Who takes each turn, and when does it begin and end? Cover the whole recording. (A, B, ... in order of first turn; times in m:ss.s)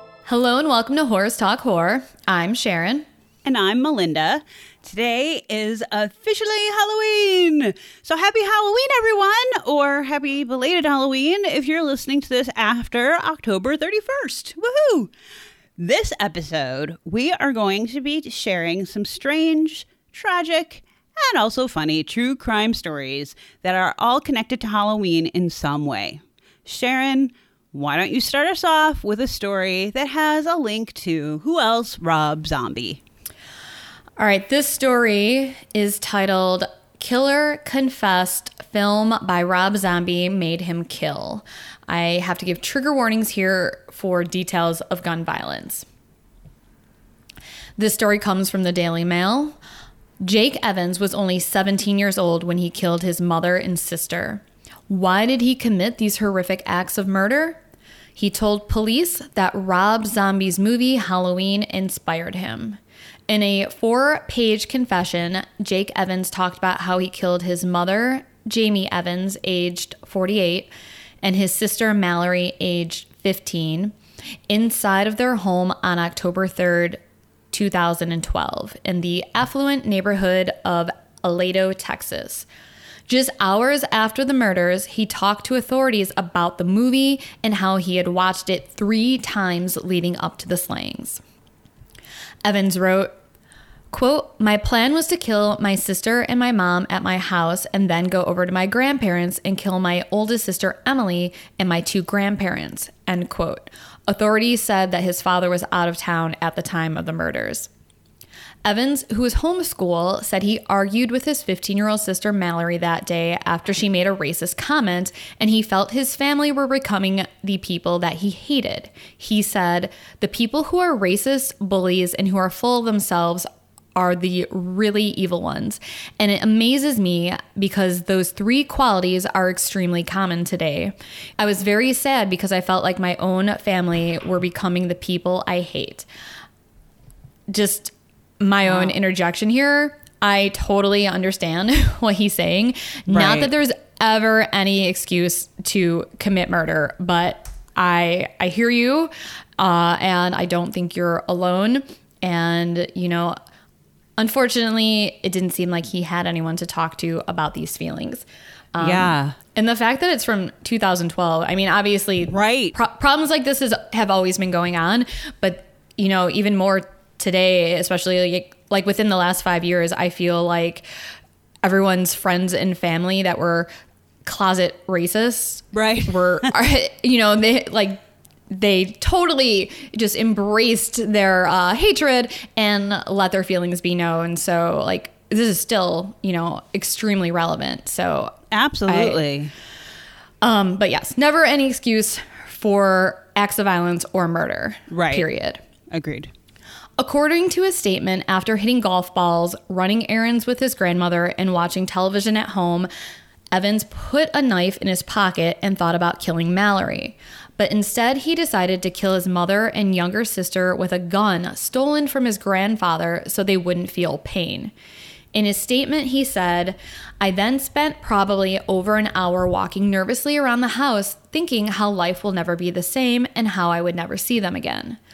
0:00.2-0:03.1 A
0:03.4-0:15.1 B
0:15.8-0:33.0 B
0:34.2-0:45.8 A
0:47.8-0:49.6 A
0:50.2-0:57.6 A
0:58.2-1:10.7 A
1:11.2-1:13.9 A
1:14.5-1:17.0 A
1:17.5-1:22.4 A
1:23.1-1:31.2 A
1:32.4-1:33.1 A
1:33.9-1:47.7 A
1:48.6-2:16.0 A
2:17.5-2:33.4 A
2:23.1-2:23.5 B
2:34.2-2:50.8 A
2:38.8-2:39.3 B
2:42.3-2:42.7 B
2:51.6-2:53.7 A
2:54.2-3:08.3 A
2:55.7-2:56.4 B
3:08.5-3:09.5 B
3:08.9-3:09.2 A
3:10.4-3:15.6 A
3:14.9-3:15.3 B
3:15.9-3:16.3 B
3:17.0-3:22.9 A
3:23.5-3:34.7 A
3:35.3-3:45.0 A